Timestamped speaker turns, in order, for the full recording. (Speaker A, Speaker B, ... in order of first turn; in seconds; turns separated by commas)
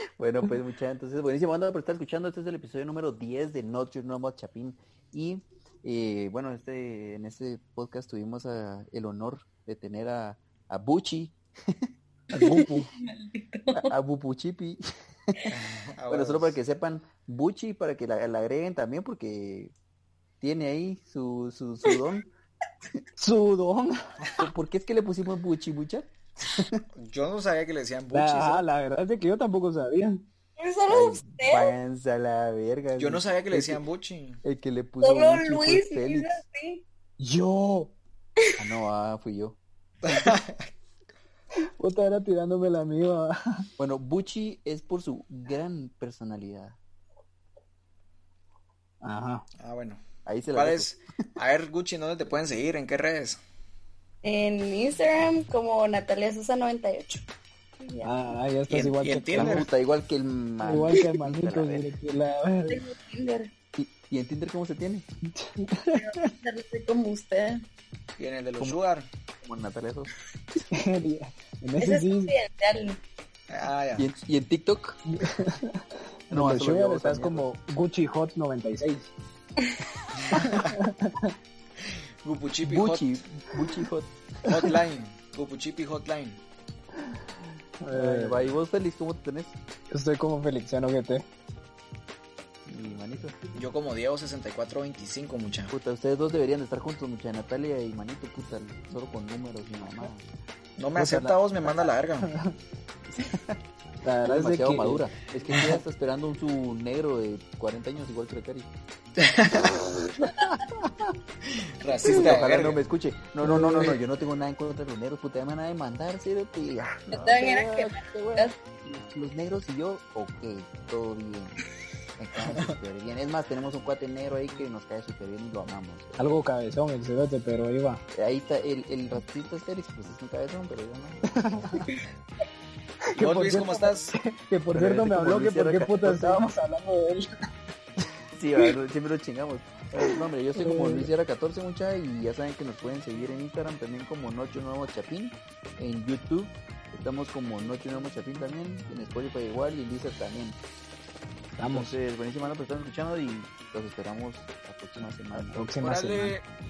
Speaker A: 0.2-11.9, Speaker B: 12.3-12.9, Speaker C: 12.3-13.9, Speaker A: 13.7-15.4, Speaker D: 15.5-16.6, Speaker A: 16.1-19.7, Speaker A: 20.4-22.3, Speaker B: 23.2-24.0, Speaker A: 24.4-26.9, Speaker D: 26.9-28.6, Speaker B: 28.1-30.2, Speaker C: 30.6-31.7, Speaker A: 30.9-33.8, Speaker D: 33.0-34.4, Speaker A: 34.4-36.4, Speaker C: 35.0-36.8, Speaker B: 37.2-38.0, Speaker A: 38.6-39.6, Speaker D: 40.0-40.7, Speaker B: 41.8-43.7, Speaker A: 43.8-46.8, Speaker B: 49.0-49.5, Speaker D: 49.6-50.0, Speaker A: 50.2-51.3, Speaker D: 50.5-53.4, Speaker C: 54.2-57.3, Speaker C: 57.8-58.2, Speaker B: 58.0-59.7, Speaker D: 58.7-59.7, Speaker A: 59.3-61.9, Speaker B: 60.6-62.8, Speaker C: 62.7-63.5, Speaker A: 63.8-65.1, Speaker B: 65.2-66.1, Speaker C: 65.9-67.6, Speaker D: 68.2-69.1, Speaker A: 69.4-70.1, Speaker B: 70.7-72.3, Speaker C: 71.8-73.0, Speaker D: 73.5-74.1, Speaker A: 74.0-75.0, Speaker B: 75.1-79.1, Speaker A: 76.3-77.5, Speaker D: 80.2-80.8, Speaker B: 80.3-81.3, Speaker D: 81.8-83.1, Speaker A: 82.6-84.7, Speaker D: 84.4-86.4, Speaker B: 87.8-88.4, Speaker A: 87.9-89.6, Speaker B: 89.9-91.3, Speaker A: 92.7-93.4, Speaker D: 93.5-95.7, Speaker A: 95.7-100.2, Speaker D: 100.8-102.3, Speaker B: 101.0-102.6, Speaker A: 103.1-103.6, Speaker B: 104.0-105.6, Speaker A: 104.2-108.7, Speaker D: 109.2-110.0, Speaker C: 110.2-110.5, Speaker D: 111.5-112.8, Speaker A: 112.0-121.6, Speaker B: 113.4-114.0, Speaker C: 117.1-118.7, Speaker A: 122.2-126.2, Speaker B: 126.2-128.0, Speaker A: 128.1-131.8, Speaker B: 131.3-131.9, Speaker B: 133.1-137.3, Speaker D: 133.2-134.1, Speaker A: 134.7-136.5, Speaker A: 138.3-150.6, Speaker B: 140.1-141.1, Speaker B: 151.6-151.9, Speaker A: 151.7-155.6, Speaker B: 155.5-156.3, Speaker D: 155.8-156.4